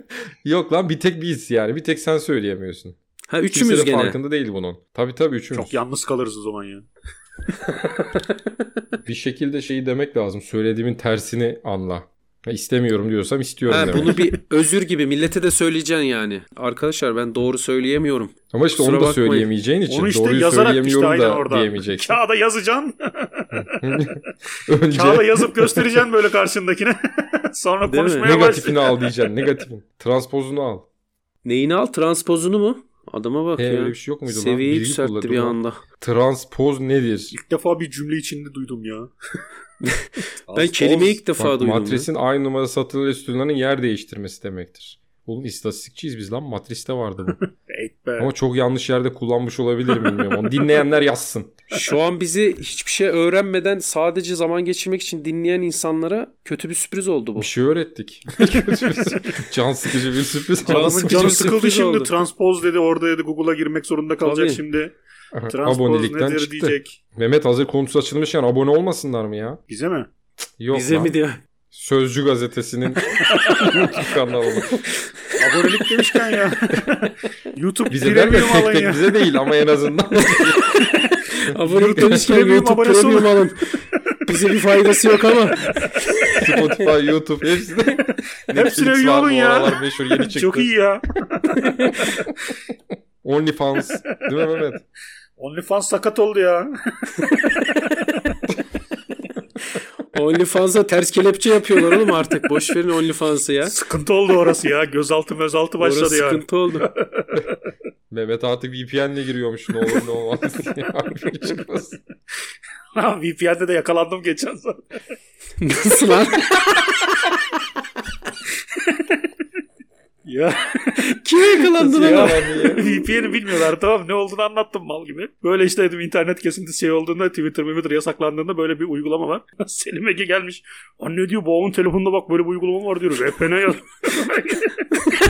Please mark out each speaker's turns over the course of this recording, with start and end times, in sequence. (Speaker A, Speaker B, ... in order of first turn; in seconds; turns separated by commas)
Speaker A: 0.4-3.0, Speaker B: 3.3-4.2, Speaker A: 3.5-5.8, Speaker C: 5.5-6.9, Speaker A: 9.1-14.2, Speaker B: 13.7-19.5, Speaker A: 18.5-22.2, Speaker C: 19.9-23.5, Speaker A: 23.5-26.0, Speaker C: 24.9-29.1, Speaker B: 27.9-28.3, Speaker A: 28.2-30.9, Speaker B: 31.4-35.8, Speaker A: 33.6-37.4, Speaker C: 37.3-39.1, Speaker B: 39.8-42.1, Speaker C: 40.5-41.2, Speaker A: 41.4-47.4, Speaker C: 47.7-48.3, Speaker A: 48.2-51.5, Speaker B: 51.7-57.5, Speaker A: 57.4-61.5, Speaker B: 60.6-62.1, Speaker C: 60.6-65.0, Speaker B: 64.2-64.6, Speaker A: 65.3-69.6, Speaker C: 65.5-67.0, Speaker C: 69.7-70.1, Speaker A: 70.6-71.2, Speaker B: 70.7-71.4, Speaker A: 71.7-74.8, Speaker C: 73.4-73.7, Speaker C: 75.4-79.0, Speaker A: 77.9-80.7, Speaker B: 80.3-83.6, Speaker C: 81.6-83.4, Speaker A: 82.0-82.3, Speaker B: 84.2-86.9, Speaker A: 86.4-90.7, Speaker C: 88.5-92.3, Speaker B: 91.5-92.2, Speaker A: 93.2-94.8, Speaker C: 95.4-96.7, Speaker B: 100.1-103.8, Speaker C: 103.6-107.2, Speaker B: 105.8-106.9, Speaker A: 108.1-112.0, Speaker C: 113.0-114.8, Speaker B: 115.6-117.1, Speaker C: 118.9-119.2, Speaker C: 120.2-121.0, Speaker B: 121.0-123.0, Speaker A: 121.9-122.9, Speaker C: 121.9-134.7